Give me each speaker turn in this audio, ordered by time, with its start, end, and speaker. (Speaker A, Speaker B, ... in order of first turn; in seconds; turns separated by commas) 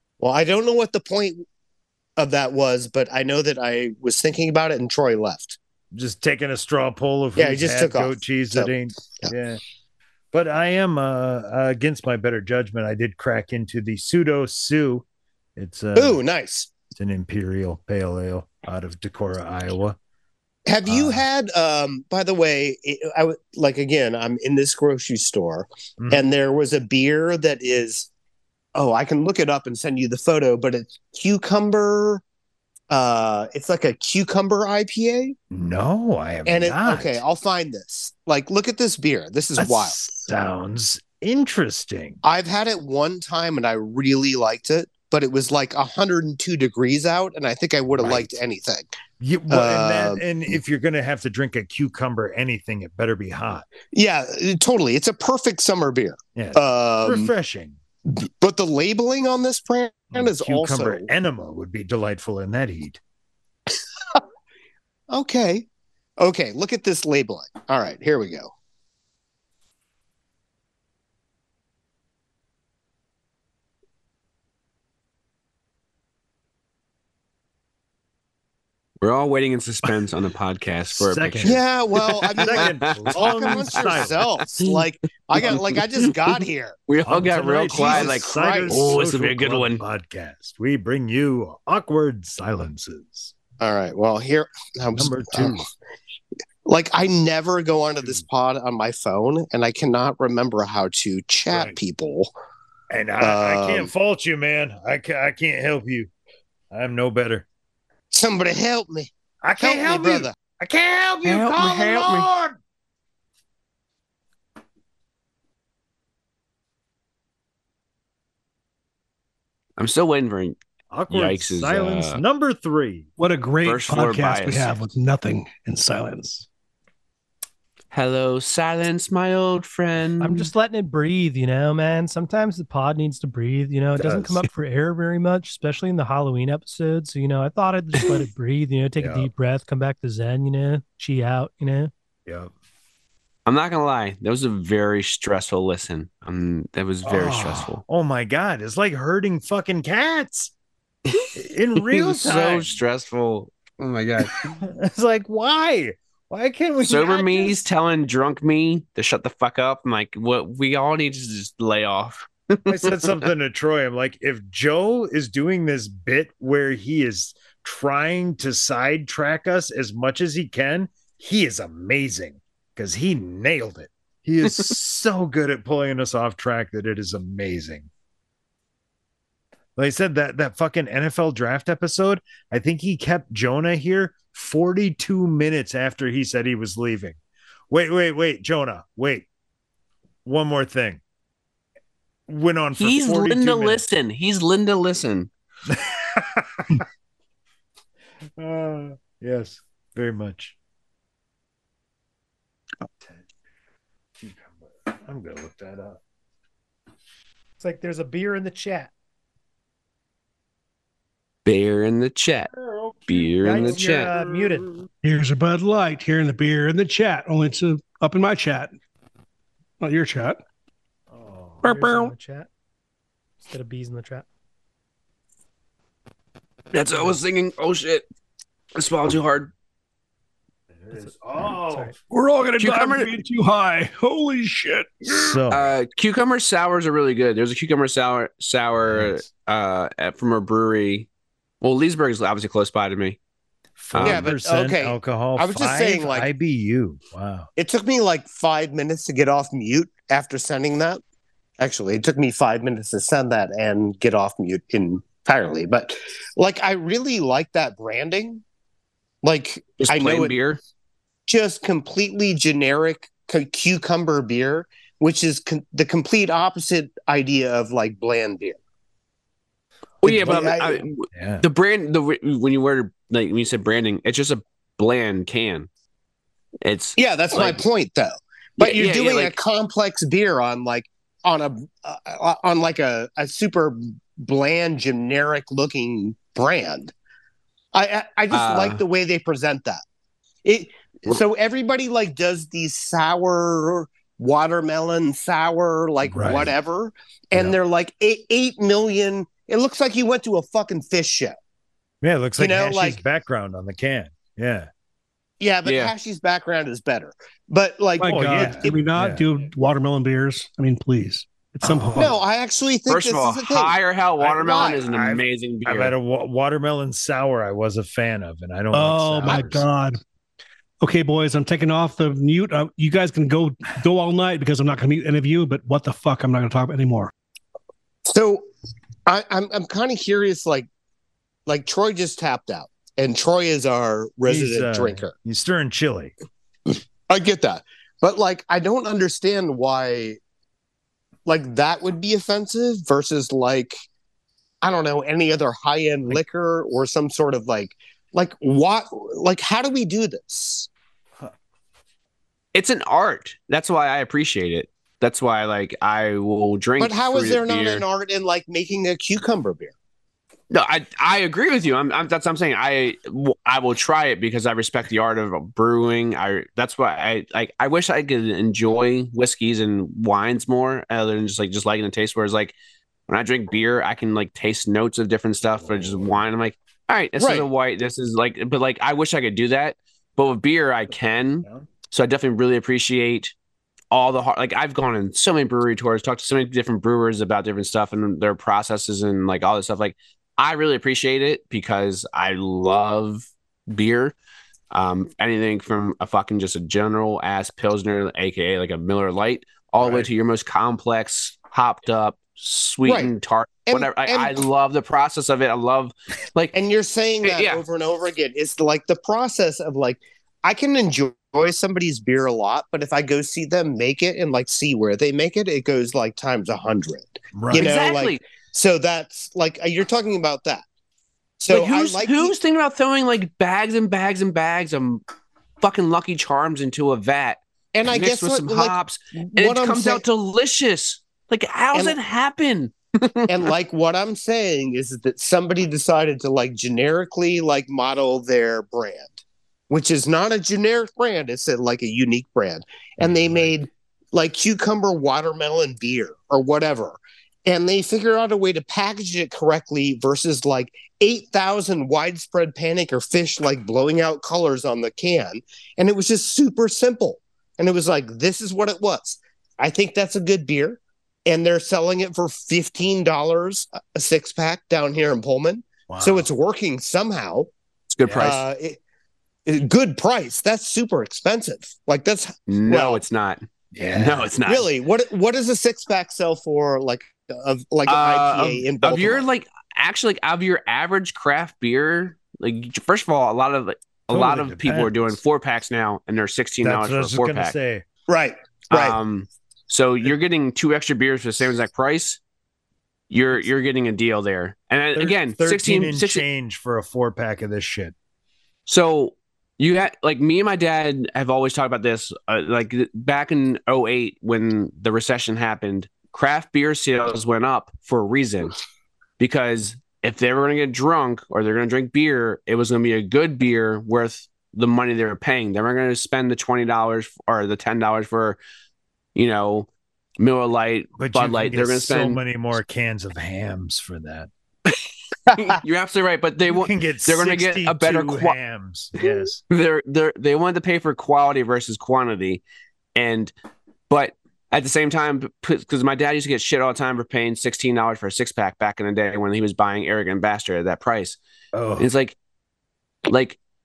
Speaker A: 0.2-1.4, Speaker A: 2.2-5.6, Speaker B: 5.9-9.6, Speaker A: 7.3-8.7, Speaker B: 10.3-15.0, Speaker B: 15.6-16.2, Speaker A: 15.9-16.7, Speaker B: 16.9-19.9, Speaker A: 20.6-28.1, Speaker B: 20.9-21.2, Speaker B: 26.0-26.2, Speaker A: 28.7-32.2, Speaker A: 32.9-35.4, Speaker B: 35.5-37.2, Speaker A: 36.5-40.0, Speaker B: 39.6-42.2, Speaker A: 42.2-48.9, Speaker B: 48.0-48.4, Speaker B: 49.2-53.6, Speaker A: 49.5-50.5, Speaker A: 53.9-57.3, Speaker B: 56.4-57.8, Speaker A: 58.2-61.1, Speaker B: 60.1-63.0, Speaker A: 65.1-65.7, Speaker A: 66.2-68.5, Speaker C: 79.0-84.7, Speaker B: 81.0-81.6, Speaker A: 81.4-86.8, Speaker B: 82.4-84.2, Speaker C: 85.3-86.3, Speaker C: 86.9-89.8, Speaker B: 87.1-93.3, Speaker A: 87.7-88.9, Speaker A: 93.6-95.6, Speaker B: 95.0-95.7, Speaker A: 96.6-102.3, Speaker B: 101.5-101.8, Speaker B: 102.9-106.1, Speaker A: 103.2-103.9, Speaker B: 106.7-107.5, Speaker A: 108.1-110.3, Speaker B: 109.4-112.6, Speaker C: 111.2-112.3, Speaker C: 119.8-120.6, Speaker B: 120.9-123.1, Speaker C: 121.1-122.2, Speaker D: 123.2-126.5, Speaker C: 123.6-124.8, Speaker C: 127.9-130.5, Speaker E: 130.2-141.9, Speaker B: 134.0-134.4, Speaker B: 139.0-139.3, Speaker B: 142.3-142.5, Speaker C: 143.4-147.8, Speaker B: 147.0-150.5, Speaker C: 151.1-154.6, Speaker B: 151.3-152.8, Speaker B: 154.6-157.6, Speaker C: 156.8-163.2, Speaker B: 162.7-177.9, Speaker C: 174.5-174.7, Speaker B: 179.8-187.2, Speaker B: 187.7-189.3, Speaker B: 190.2-191.0, Speaker B: 192.3-193.8, Speaker C: 192.8-195.3, Speaker B: 195.7-196.8, Speaker B: 198.4-200.5, Speaker B: 204.2-206.0, Speaker E: 207.6-208.9, Speaker C: 211.4-212.5, Speaker B: 212.5-214.4, Speaker C: 213.1-214.1, Speaker E: 213.4-214.7, Speaker D: 215.0-218.7, Speaker D: 219.8-220.4, Speaker B: 221.1-221.6, Speaker E: 221.6-222.5, Speaker A: 221.6-222.1, Speaker E: 223.4-224.2, Speaker C: 226.7-228.0, Speaker C: 228.7-229.5, Speaker B: 230.8-231.9, Speaker E: 230.9-231.9, Speaker D: 232.1-235.4, Speaker C: 232.6-233.1, Speaker B: 235.1-235.7, Speaker C: 235.5-241.1, Speaker B: 238.8-239.2, Speaker C: 241.6-243.2, Speaker B: 243.8-247.5, Speaker C: 243.9-244.3, Speaker A: 244.0-246.3, Speaker A: 247.6-251.0, Speaker A: 251.6-258.4, Speaker A: 259.2-260.3, Speaker C: 259.8-260.6, Speaker A: 261.3-268.6, Speaker A: 270.0-270.8, Speaker C: 270.0-275.7, Speaker B: 271.1-271.4, Speaker C: 276.6-277.6, Speaker A: 277.0-286.9, Speaker C: 278.6-279.4, Speaker A: 287.7-289.8, Speaker C: 288.3-288.8, Speaker A: 290.4-301.4, Speaker B: 296.0-296.5, Speaker B: 302.0-304.7, Speaker A: 302.4-303.0, Speaker A: 305.4-308.8, Speaker C: 305.6-305.9, Speaker D: 308.0-312.1, Speaker B: 308.1-309.2, Speaker A: 311.9-314.9, Speaker C: 312.9-315.9, Speaker B: 314.8-319.6, Speaker D: 318.7-320.0, Speaker D: 320.8-327.1, Speaker A: 328.1-328.5, Speaker A: 329.1-330.7, Speaker A: 331.5-335.1, Speaker B: 334.3-336.1, Speaker A: 337.1-340.2, Speaker A: 341.2-343.8, Speaker A: 344.6-350.7, Speaker C: 352.5-357.8, Speaker A: 356.8-359.7, Speaker C: 360.5-372.5, Speaker C: 373.1-383.3, Speaker B: 375.6-376.2, Speaker A: 377.2-377.5, Speaker C: 383.9-394.1, Speaker C: 394.7-406.5, Speaker B: 399.8-400.1, Speaker A: 402.8-403.1, Speaker A: 403.6-404.4, Speaker A: 406.5-420.6, Speaker C: 407.2-407.6, Speaker B: 417.3-417.7, Speaker C: 417.5-418.2, Speaker A: 421.4-422.3, Speaker C: 421.5-425.0, Speaker C: 425.6-433.5, Speaker A: 427.7-430.0, Speaker A: 433.3-439.1, Speaker A: 439.7-467.5, Speaker B: 443.0-443.5, Speaker B: 465.9-466.3, Speaker C: 467.9-468.4, Speaker B: 468.1-468.4, Speaker A: 468.1-468.8, Speaker A: 469.4-473.0, Speaker C: 472.5-473.4, Speaker B: 473.7-474.3, Speaker C: 473.9-474.7, Speaker A: 474.4-479.3, Speaker C: 477.9-487.5, Speaker B: 484.1-485.1, Speaker B: 486.6-487.8, Speaker A: 488.1-489.0, Speaker C: 488.7-492.2, Speaker C: 493.1-496.2, Speaker B: 494.9-497.9, Speaker C: 498.7-508.6, Speaker C: 509.2-518.4, Speaker C: 519.1-519.7, Speaker C: 520.2-522.2, Speaker B: 521.0-524.3, Speaker C: 525.3-528.4, Speaker B: 526.5-529.4, Speaker C: 529.0-532.4, Speaker C: 532.9-533.3, Speaker C: 533.9-541.2, Speaker B: 541.5-541.9, Speaker C: 541.8-542.1, Speaker C: 543.1-543.4